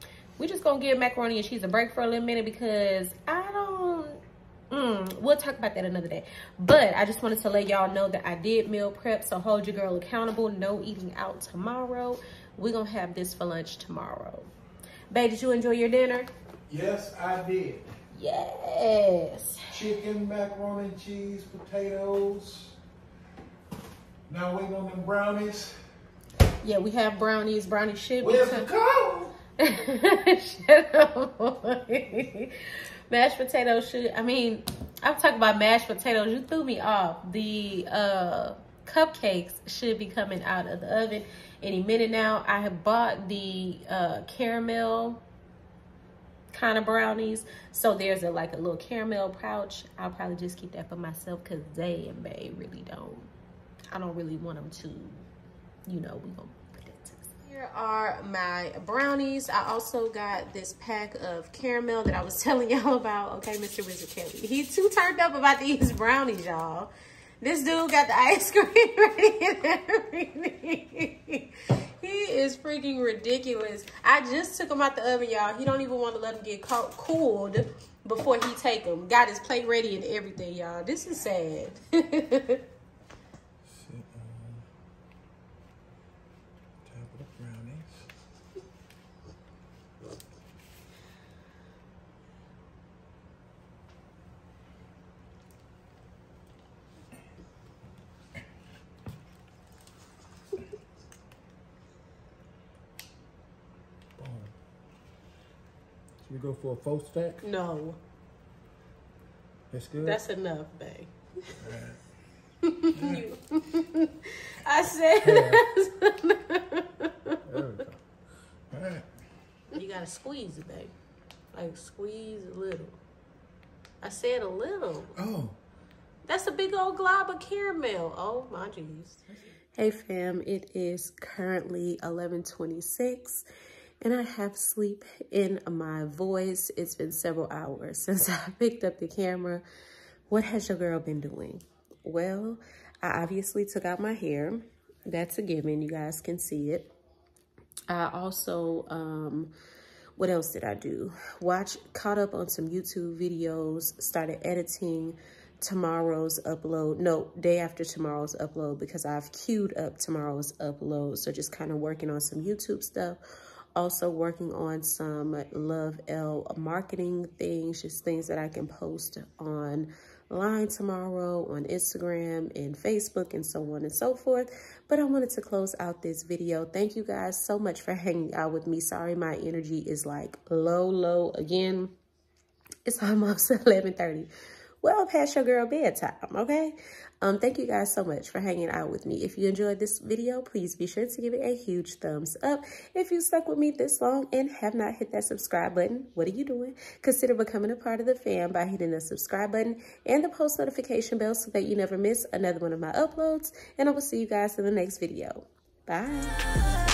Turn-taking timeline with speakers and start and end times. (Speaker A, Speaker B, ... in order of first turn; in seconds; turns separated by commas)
Speaker A: 0.4-4.2, Speaker A: 4.7-14.5, Speaker A: 15.1-16.3, Speaker B: 16.7-17.8, Speaker A: 18.1-19.6, Speaker B: 19.7-22.7, Speaker B: 24.3-25.7, Speaker A: 26.6-28.7, Speaker B: 28.2-29.3, Speaker A: 29.6-32.5, Speaker A: 33.1-45.2, Speaker A: 46.5-53.3, Speaker A: 53.9-55.2, Speaker A: 55.9-71.5, Speaker A: 72.0-82.6, Speaker B: 83.7-84.6, Speaker B: 86.8-88.0, Speaker B: 104.2-104.5, Speaker B: 106.2-107.4, Speaker A: 107.4-108.0, Speaker B: 109.7-110.2, Speaker A: 110.0-111.1, Speaker B: 111.6-112.0, Speaker A: 112.6-117.4, Speaker B: 112.9-113.2, Speaker B: 115.2-115.6, Speaker B: 117.5-118.0, Speaker B: 118.7-119.0, Speaker A: 119.7-120.9, Speaker A: 121.5-123.0, Speaker A: 124.0-125.1, Speaker B: 125.1-125.6, Speaker A: 126.3-129.2, Speaker A: 129.8-133.4, Speaker A: 134.0-139.6, Speaker A: 140.3-146.9, Speaker A: 147.9-149.5, Speaker A: 150.2-163.2, Speaker A: 163.7-181.9, Speaker A: 182.8-184.3, Speaker A: 184.8-206.4